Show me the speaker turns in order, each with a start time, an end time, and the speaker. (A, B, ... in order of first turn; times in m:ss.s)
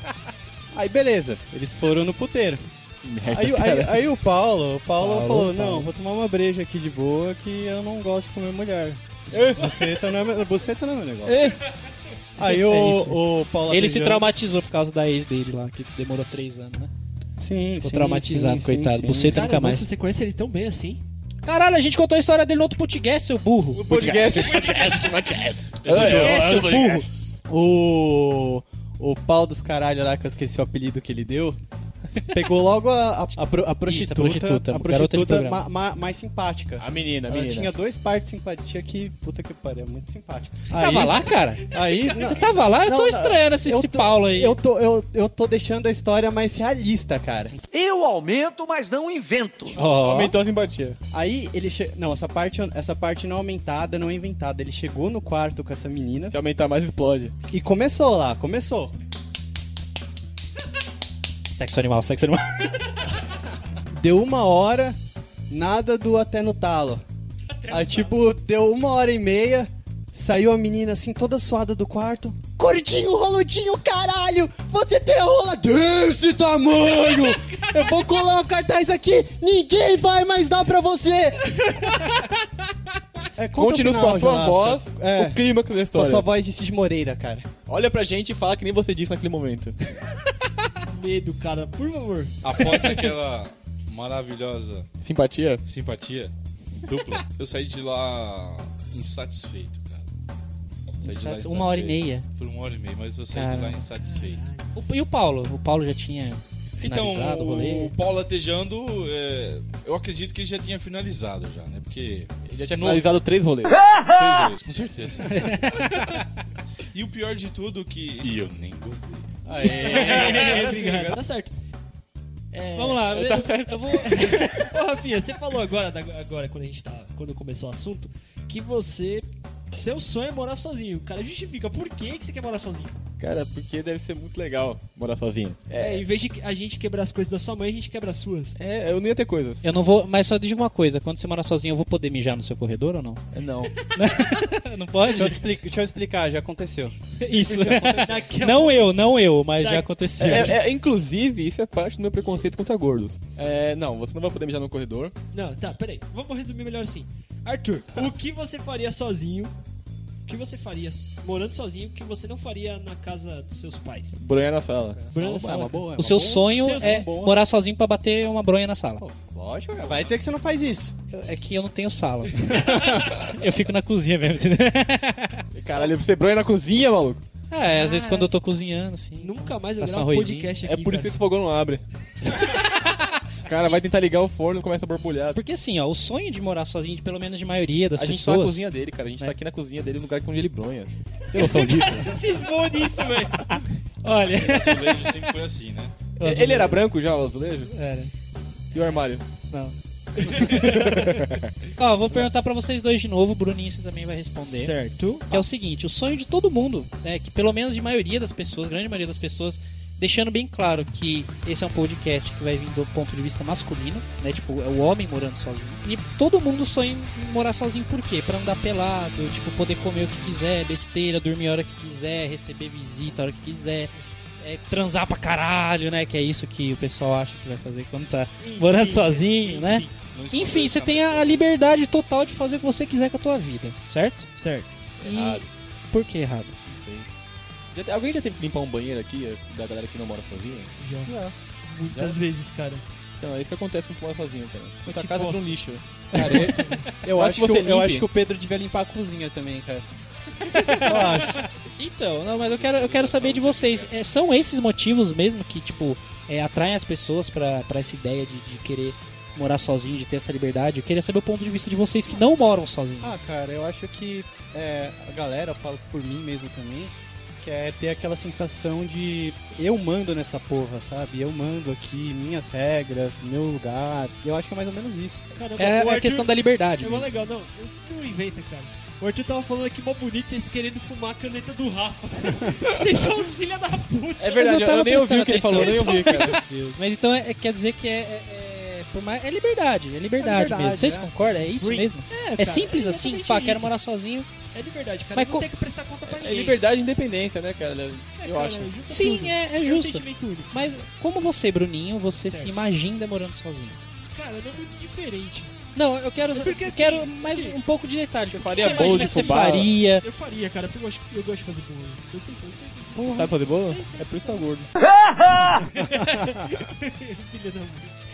0:00.7-0:02.6 A
0:03.0-0:04.1 B
0:03.3-0:11.5 A
0:05.0-0:05.9 C
0:09.3-0:09.8 B
0:11.2-0:11.6 B
0:12.4-0:14.3 A
0:12.4-0:16.9 C
0:17.4-0:19.4 A
0:17.8-0:19.9 C
0:19.3-0:21.0 D
0:21.4-0:25.0 C
0:23.7-0:27.1 B
0:24.5-0:25.1 D
0:25.8-0:26.6 E
0:25.9-0:27.0 C
0:26.0-0:26.6 D
0:27.5-0:31.6 A
0:32.3-0:47.6 A
0:33.8-0:35.6 C
0:36.8-0:37.7 B
0:40.7-0:41.6 C
0:41.7-0:42.4 D
0:42.2-0:44.6 C
0:47.7-0:49.8 F
0:49.7-0:50.4 C
0:49.8-0:51.0 B
0:51.1-0:56.4 A
0:56.3-0:57.3 B
0:57.5-0:58.9 A
1:01.5-1:02.7 C
1:03.9-1:05.0 A
1:05.5-1:07.0 A
1:07.5-1:08.2 D
1:07.7-1:21.6 A
1:17.3-1:17.9 D
1:23.4-1:27.5 A
1:23.5-1:26.3 B
1:27.7-1:29.8 B
1:30.8-1:32.4 D
1:32.4-1:34.9 E
1:35.0-1:35.6 B
1:35.6-1:36.3 E
1:36.8-1:40.1 E
1:41.0-1:42.2 C
1:41.0-1:44.5 E
1:43.3-1:43.8 C
1:44.0-1:44.7 D
1:44.7-1:47.9 C
1:46.8-1:53.2 E
1:52.4-1:53.8 B
1:54.1-1:55.7 E
1:55.2-1:56.2 C
1:56.9-1:59.3 E
1:59.4-2:01.0 A
1:59.7-2:01.5 D
2:00.0-2:01.1 B
2:02.5-2:03.0 D
2:02.7-2:04.5 C
2:03.0-2:04.2 B
2:04.1-2:13.0 D
2:13.2-2:16.0 B
2:15.7-2:18.5 D
2:18.6-2:19.6 B
2:19.6-2:23.2 C
2:23.3-2:23.7 B
2:23.9-2:25.4 C
2:25.0-2:27.0 A
2:27.2-2:30.6 C
2:27.5-2:28.2 A
2:28.0-2:30.6 D
2:30.2-2:35.2 B
2:35.3-2:39.5 D
2:40.2-2:44.2 D
2:44.2-2:45.3 B
2:45.1-2:45.9 D
2:45.1-2:47.4 A
2:46.0-2:49.0 C
2:46.5-2:47.1 D
2:49.0-2:50.1 B
2:49.8-2:50.9 A
2:51.1-2:55.4 C
2:52.6-2:53.0 A
2:55.5-2:57.2 B
2:57.5-3:00.5 C
2:57.6-2:58.3 D
2:59.2-3:01.2 D
3:00.6-3:01.8 B
3:03.4-3:05.4 B
3:05.3-3:08.6 C
3:08.0-3:12.1 B
3:11.4-3:13.5 D
3:13.4-3:15.0 C
3:14.3-3:16.0 E
3:16.2-3:16.8 C
3:16.2-3:17.7 B
3:17.7-3:18.1 C
3:18.7-3:19.2 B
3:19.5-3:24.7 C
3:20.2-3:21.5 B
3:24.4-3:25.4 D
3:25.3-3:54.3 C
3:48.4-3:50.0 D
3:50.1-3:51.5 E
3:54.4-3:54.9 D
3:55.0-3:55.5 B
3:55.0-3:56.5 C
3:56.6-3:57.1 B
3:57.7-4:00.7 B
4:00.8-4:02.8 D
4:01.0-4:01.3 A
4:01.9-4:02.2 B
4:03.2-4:08.0 B
4:06.1-4:06.7 C
4:06.1-4:06.5 A
4:06.2-4:06.9 D
4:07.0-4:09.8 A
4:10.6-4:11.2 C
4:10.6-4:11.4 A
4:11.8-4:23.1 C
4:12.3-4:14.1 E
4:23.0-4:35.2 A
4:35.3-4:44.4 D
4:35.6-4:37.1 C
4:44.2-4:46.4 B
4:44.2-4:54.3 C
4:45.5-4:46.4 D
4:50.2-4:51.1 A
4:51.4-4:53.7 D
4:54.5-4:56.6 D
4:55.1-4:55.5 C
4:56.0-4:58.7 B
4:58.2-5:00.5 D
4:58.9-5:03.8 C
5:02.2-5:02.5 D
5:04.1-5:05.5 D
5:05.7-5:10.0 C
5:06.3-5:07.6 D
5:08.3-5:09.7 B
5:08.5-5:14.5 D
5:13.0-5:14.7 B
5:15.4-5:17.9 D